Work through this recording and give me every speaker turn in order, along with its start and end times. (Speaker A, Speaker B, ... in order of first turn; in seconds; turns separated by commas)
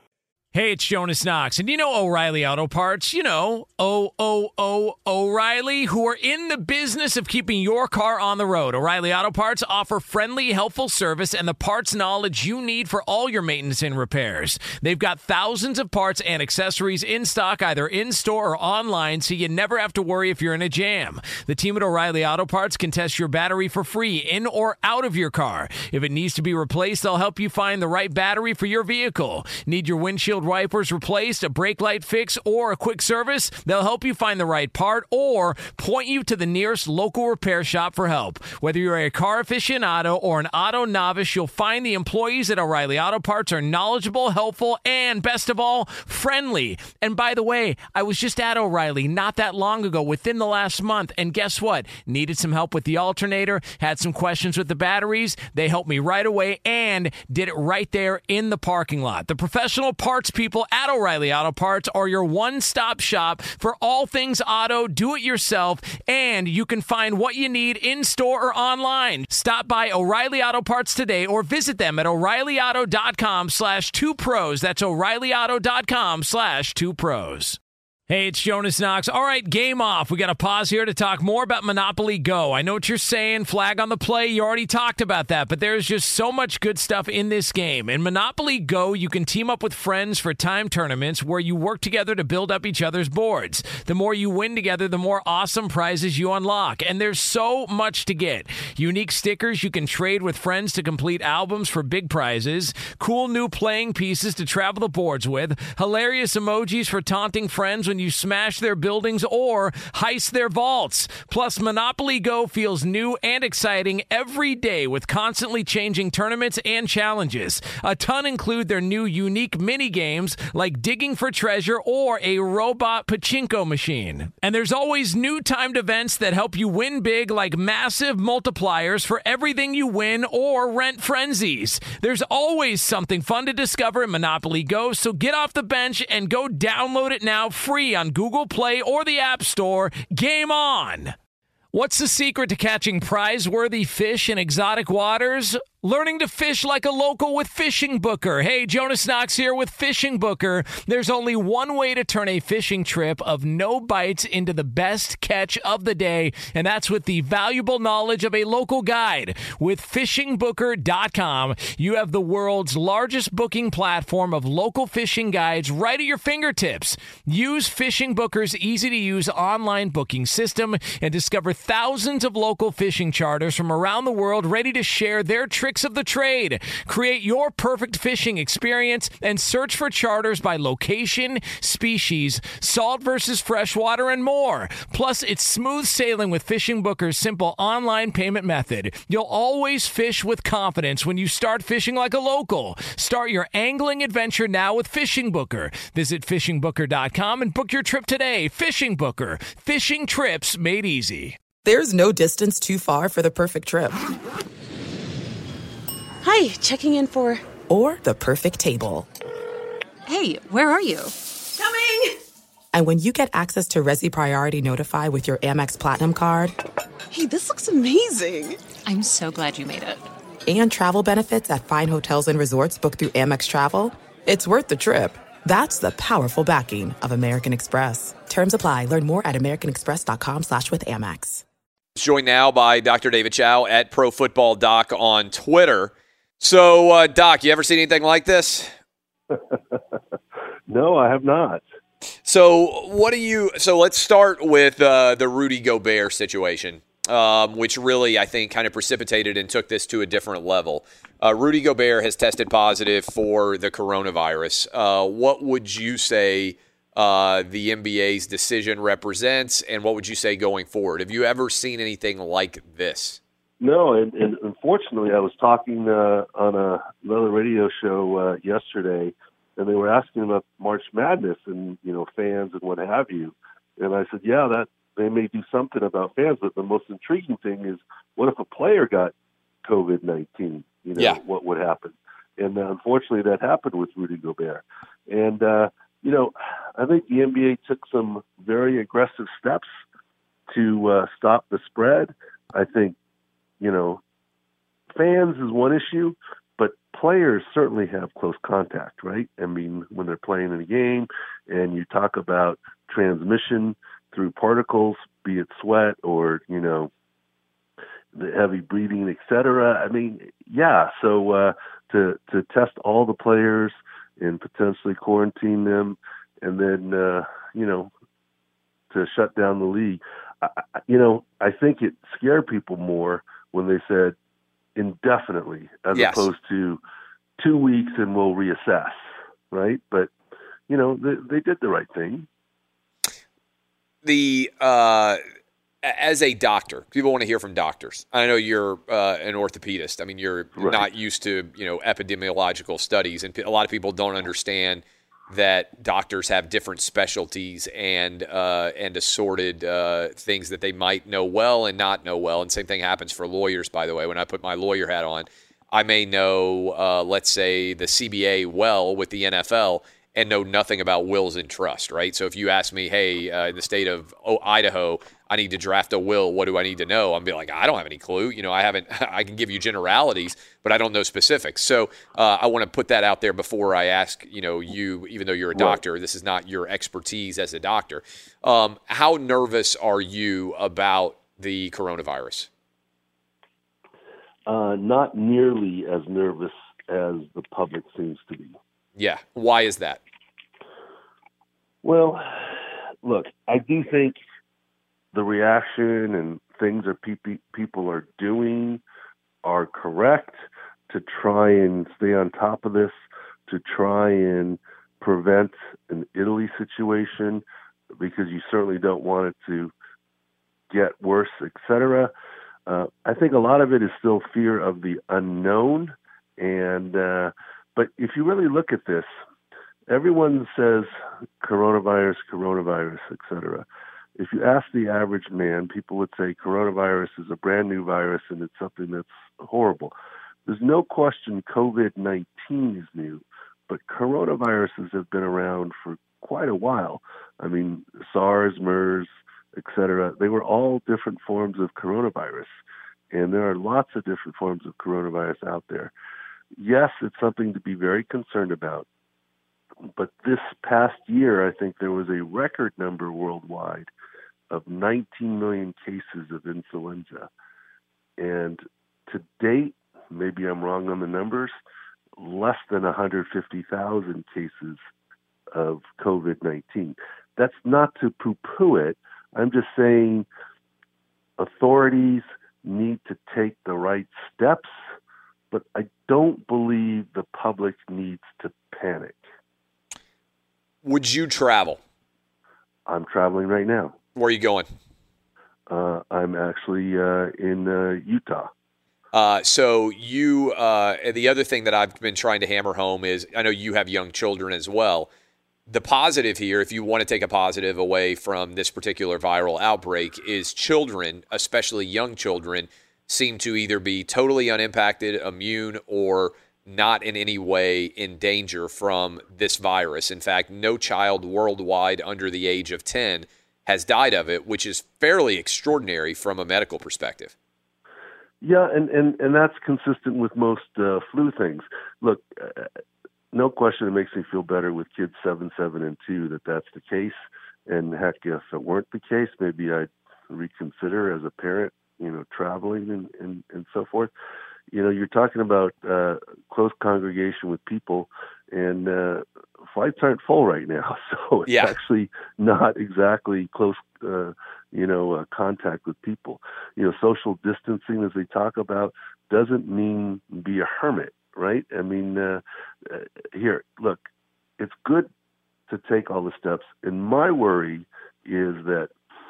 Speaker A: 0.5-77.6, Speaker A: 78.1-141.1, Speaker A: 141.7-201.4, Speaker B: 201.6-204.1, Speaker C: 206.2-207.4, Speaker B: 207.7-209.1, Speaker C: 210.1-212.0, Speaker B: 212.7-216.5, Speaker C: 217.1-220.0, Speaker B: 220.5-231.4, Speaker D: 231.9-238.7, Speaker E: 239.3-239.8, Speaker E: 240.7-241.6, Speaker D: 242.2-263.2, Speaker E: 263.6-279.1, Speaker E: 279.6-289.7, Speaker E: 290.5-292.9, Speaker E: 293.6-294.0, Speaker E: 294.9-306.9, Speaker E: 308.1-317.9, Speaker E: 318.9-324.1, Speaker E: 324.8-326.8, Speaker D: 325.9-326.3, Speaker E: 327.4-330.1, Speaker E: 330.7-332.3, Speaker D: 334.0-335.2, Speaker D: 335.8-382.5, Speaker E: 340.6-340.8, Speaker E: 375.5-375.8, Speaker E: 384.5-388.6, Speaker D: 388.9-390.0, Speaker E: 391.8-392.5, Speaker E: 393.0-394.2, Speaker E: 395.1-398.8, Speaker E: 399.4-407.4, Speaker E: 408.0-409.7, Speaker E: 410.7-412.1, Speaker E: 412.7-419.1, Speaker E: 419.9-423.6, Speaker E: 424.2-429.9, Speaker E: 430.4-442.5, Speaker E: 443.1-445.9, Speaker E: 446.6-448.9, Speaker E: 449.9-453.9, Speaker E: 454.5-457.3, Speaker E: 458.2-461.5, Speaker E: 462.2-464.8, Speaker E: 465.5-470.3, Speaker E: 471.4-474.8, Speaker E: 475.5-479.3, Speaker D: 480.8-481.8, Speaker E: 482.9-484.0, Speaker D: 484.1-484.7, Speaker E: 485.7-488.5, Speaker D: 489.1-495.1, Speaker D: 495.7-517.3, Speaker E: 518.4-522.7, Speaker E: 523.3-534.1, Speaker E: 534.7-554.0, Speaker D: 541.5-541.7, Speaker E: 554.6-555.1, Speaker E: 555.7-558.9